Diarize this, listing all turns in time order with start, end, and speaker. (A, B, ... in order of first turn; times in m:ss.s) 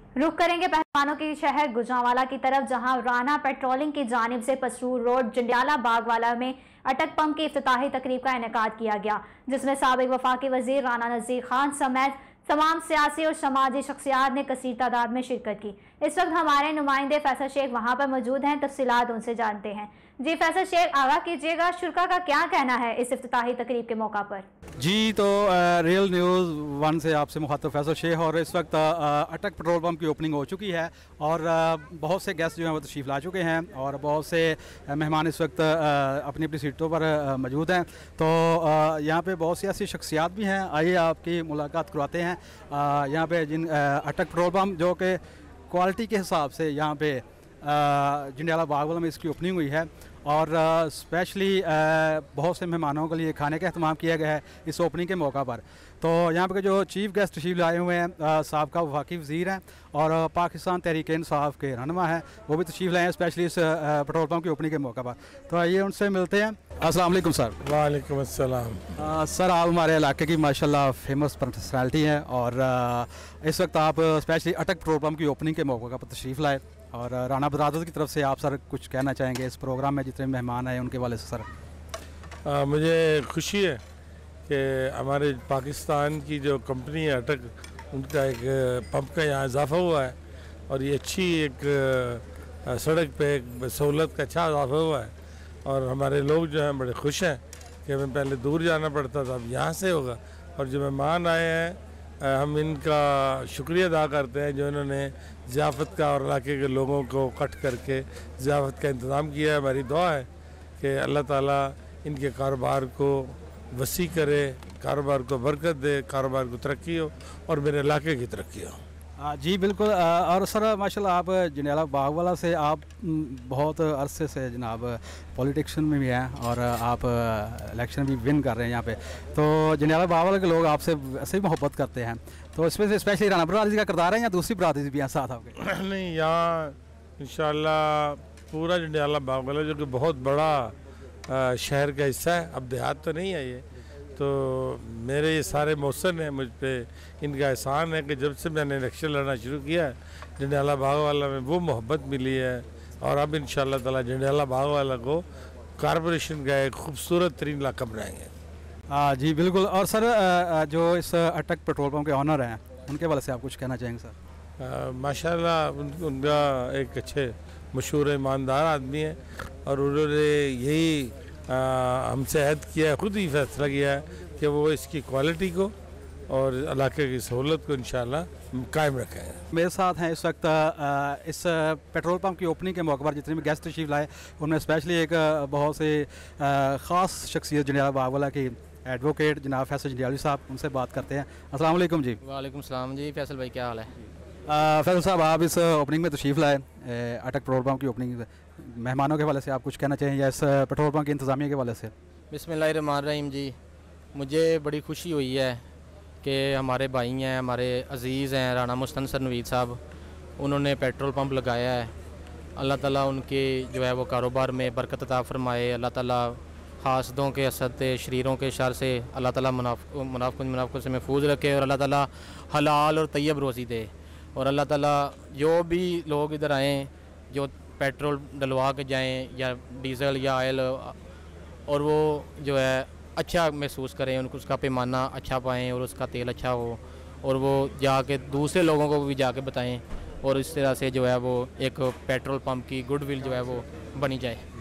0:00.2-0:24.5 A
0:24.8-0:45.2 B
0:45.7-1:07.6 B
1:07.6-1:08.8 C
1:09.0-1:21.5 B
1:22.4-1:23.8 C
1:24.5-1:30.2 C
1:30.7-1:35.1 C
1:35.7-1:50.3 C
1:50.8-1:58.8 C
1:59.2-2:15.5 B
2:15.6-2:20.7 C
2:21.3-2:23.6 C
2:24.2-2:35.2 C
2:35.8-2:38.3 C
2:38.9-2:44.1 B
2:44.6-2:55.7 C
2:56.3-2:59.4 C
2:59.5-3:12.2 B
3:12.2-3:14.0 D
3:14.5-3:21.9 B
3:22.3-3:23.6 D
3:24.1-3:25.6 D
3:26.2-3:29.8 D
3:30.4-3:31.9 D
3:32.6-3:51.0 D
3:51.7-4:04.4 D